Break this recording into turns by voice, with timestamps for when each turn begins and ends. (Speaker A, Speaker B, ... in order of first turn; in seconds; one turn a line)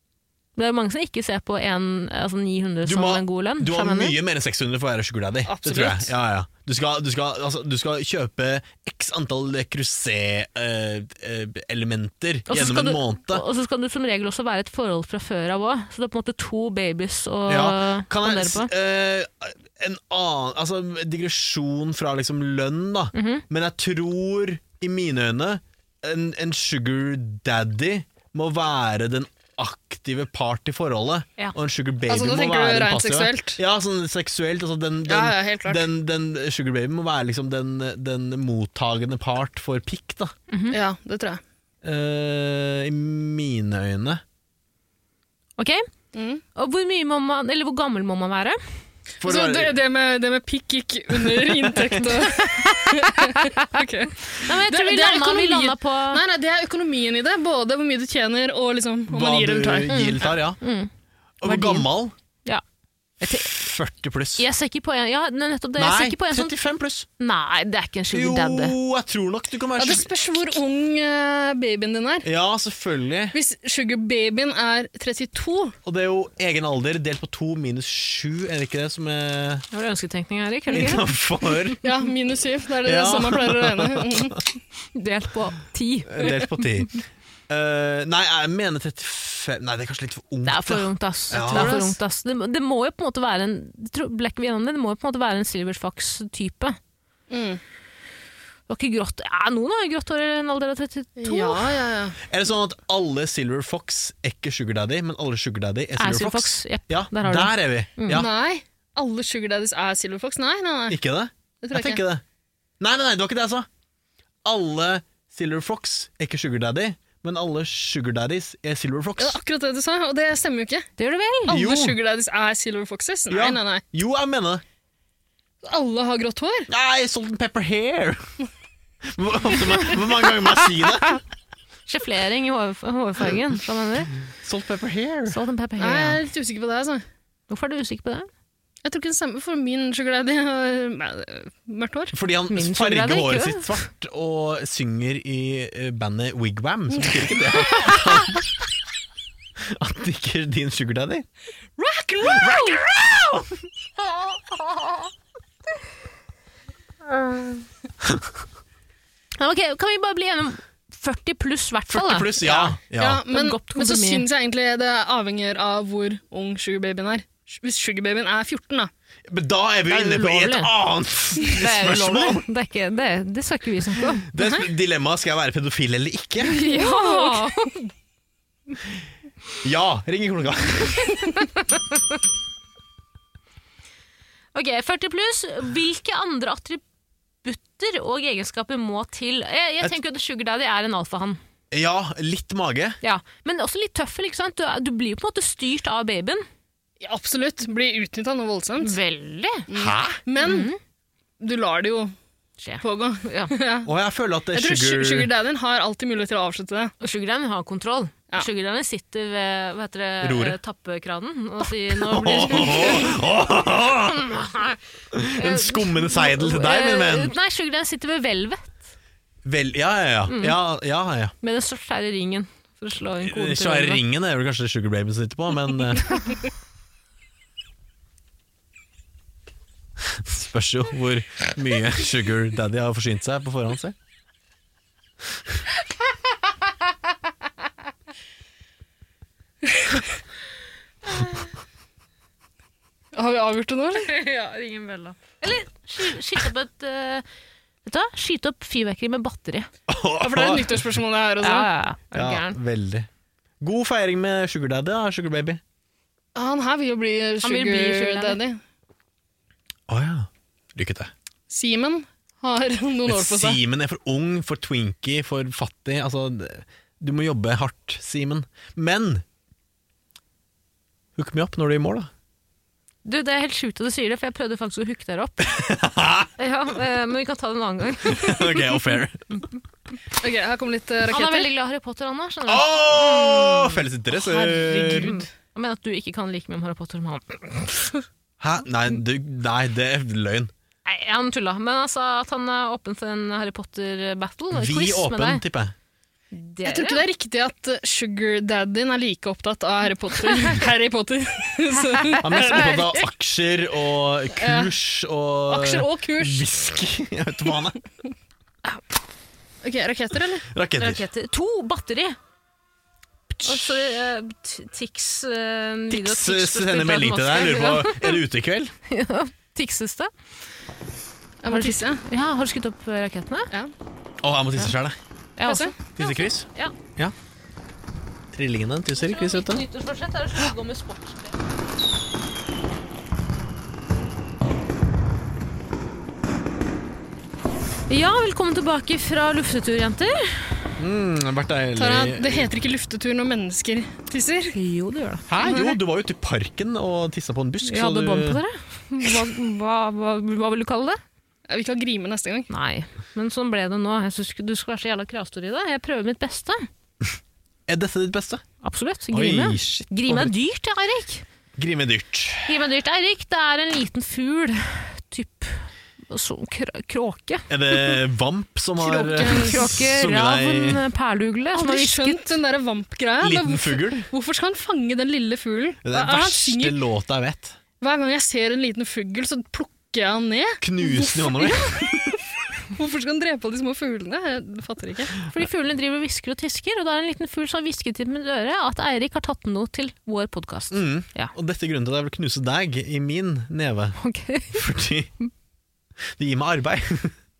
Speaker A: 0.6-4.2
Speaker B: 2.8-13.4
Speaker C: 5.5-6.1
Speaker A: 12.5-18.7
Speaker B: 17.5-40.3
Speaker A: 23.1-23.4
Speaker C: 32.1-33.6
Speaker C: 35.1-35.9
Speaker A: 40.5-40.8
Speaker C: 40.7-41.4
Speaker B: 41.8-44.2
Speaker A: 45.6-45.8
Speaker C: 46.1-46.4
Speaker A: 46.5-48.6
Speaker B: 49.2-49.8
Speaker C: 49.2-60.3
Speaker B: 51.3-52.1
Speaker A: 52.3-53.8
Speaker A: 54.3-56.2
Speaker B: 59.1-60.6
Speaker A: 59.9-60.9
Speaker B: 61.4-62.1
Speaker A: 61.4-61.9
Speaker A: 63.2-63.5
Speaker B: 63.2-64.4
Speaker A: 64.4-66.5
Speaker B: 65.8-67.1
Speaker A: 67.2-68.8
Speaker B: 68.1-70.1
Speaker C: 69.8-72.3
Speaker B: 72.2-73.3
Speaker C: 73.3-75.8
Speaker B: 75.8-79.6
Speaker A: 79.7-81.0
Speaker B: 80.7-81.8
Speaker C: 81.8-84.4
Speaker B: 82.8-84.4
Speaker A: 84.9-86.7
Speaker B: 86.1-91.8
Speaker A: 90.4-96.8
Speaker C: 91.3-91.9
Speaker C: 97.3-97.6
Speaker A: 98.7-101.7
Speaker C: 101.2-102.2
Speaker B: 102.2-108.3
Speaker A: 106.0-108.2
Speaker C: 108.1-111.0
Speaker B: 110.9-112.2
Speaker C: 111.6-112.0
Speaker B: 112.8-113.7
Speaker B: 114.4-119.4
Speaker C: 119.2-120.9
Speaker A: 121.0-121.6
Speaker C: 121.5-123.8
Speaker B: 121.5-122.0
Speaker B: 123.3-124.6
Speaker C: 125.6-126.7
Speaker B: 126.7-128.2
Speaker B: 129.0-131.2
Speaker A: 131.9-134.1
Speaker B: 134.3-135.4
Speaker A: 135.3-136.2
Speaker C: 135.8-137.0
Speaker A: 137.5-138.3
Speaker C: 138.8-142.1
Speaker B: 142.1-148.5
Speaker A: 142.5-143.8
Speaker C: 147.0-147.8
Speaker B: 149.6-151.2
Speaker C: 151.8-152.8
Speaker B: 152.2-153.7
Speaker A: 159.4-164.2
Speaker B: 161.9-163.2
Speaker C: 163.0-168.9
Speaker B: 169.3-172.4
Speaker A: 169.9-170.7
Speaker A: 171.4-174.3
Speaker B: 174.3-176.6
Speaker A: 176.4-177.8
Speaker C: 176.6-177.7
Speaker B: 179.6-181.2
Speaker A: 181.7-182.0
Speaker A: 184.5-186.8
Speaker A: 187.4-191.4
Speaker B: 191.7-193.0
Speaker A: 193.0-196.4
Speaker C: 197.0-198.9
Speaker A: 198.8-199.7
Speaker C: 199.7-200.7
Speaker B: 199.7-200.2
Speaker A: 200.4-200.8
Speaker C: 201.4-202.1
Speaker A: 202.6-203.5
Speaker C: 202.8-203.9
Speaker B: 203.8-205.3
Speaker C: 204.5-206.9
Speaker A: 207.0-213.2
Speaker B: 210.2-210.6
Speaker B: 211.9-214.3
Speaker A: 214.2-214.8
Speaker B: 215.1-217.3
Speaker A: 215.3-218.8
Speaker B: 219.4-221.3
Speaker A: 220.3-220.6
Speaker A: 221.4-224.0
Speaker B: 223.2-226.1
Speaker B: 230.0-233.9
Speaker C: 243.1-244.1
Speaker A: 243.9-247.2
Speaker A: 247.8-249.7
Speaker B: 249.9-250.9
Speaker C: 250.2-251.7
Speaker A: 251.4-252.6
Speaker B: 252.1-253.1
Speaker B: 253.6-255.6
Speaker C: 256.3-258.6
Speaker A: 257.4-258.4
Speaker B: 259.9-261.1
Speaker C: 261.5-263.6
Speaker B: 263.1-269.2
Speaker B: 271.1-272.1
Speaker A: 273.0-275.6
Speaker B: 275.4-276.3
Speaker A: 276.4-278.8
Speaker B: 278.0-279.2
Speaker C: 280.2-281.5
Speaker A: 281.1-283.8
Speaker B: 282.5-285.1
Speaker C: 284.3-285.2
Speaker A: 284.9-288.0
Speaker B: 288.4-290.5
Speaker A: 290.9-295.4
Speaker B: 294.5-295.7
Speaker A: 296.3-297.0
Speaker C: 296.6-302.8
Speaker A: 302.1-302.8
Speaker B: 302.2-307.8
Speaker C: 304.3-304.7
Speaker C: 305.5-306.5
Speaker C: 309.6-310.5
Speaker B: 310.5-311.0
Speaker A: 310.8-312.2
Speaker B: 313.3-313.8
Speaker A: 313.4-318.2
Speaker B: 315.9-318.7
Speaker A: 318.9-320.1
Speaker C: 321.4-322.0
Speaker A: 321.5-323.5
Speaker B: 324.2-325.0
Speaker A: 325.4-326.7
Speaker C: 325.4-325.7
Speaker B: 326.0-327.1
Speaker B: 328.3-329.6
Speaker A: 329.0-331.4
Speaker A: 337.9-340.7
Speaker B: 340.8-342.5
Speaker C: 341.8-344.5
Speaker A: 344.5-345.6
Speaker B: 345.3-348.4
Speaker C: 345.4-345.7
Speaker A: 347.6-351.0
Speaker C: 351.5-352.5
Speaker A: 352.5-356.7
Speaker B: 357.7-358.4
Speaker A: 358.6-361.2
Speaker B: 359.1-360.3
Speaker B: 361.6-362.6
Speaker A: 362.5-368.0
Speaker B: 367.5-370.8
Speaker C: 368.8-369.7
Speaker A: 369.2-372.3
Speaker C: 371.5-376.8
Speaker B: 373.2-374.0
Speaker B: 375.8-377.6
Speaker C: 377.8-382.2
Speaker B: 380.6-382.1
Speaker C: 382.7-385.2
Speaker A: 385.3-391.3
Speaker B: 390.7-394.0
Speaker A: 394.0-394.6
Speaker B: 394.5-395.1
Speaker B: 396.1-397.1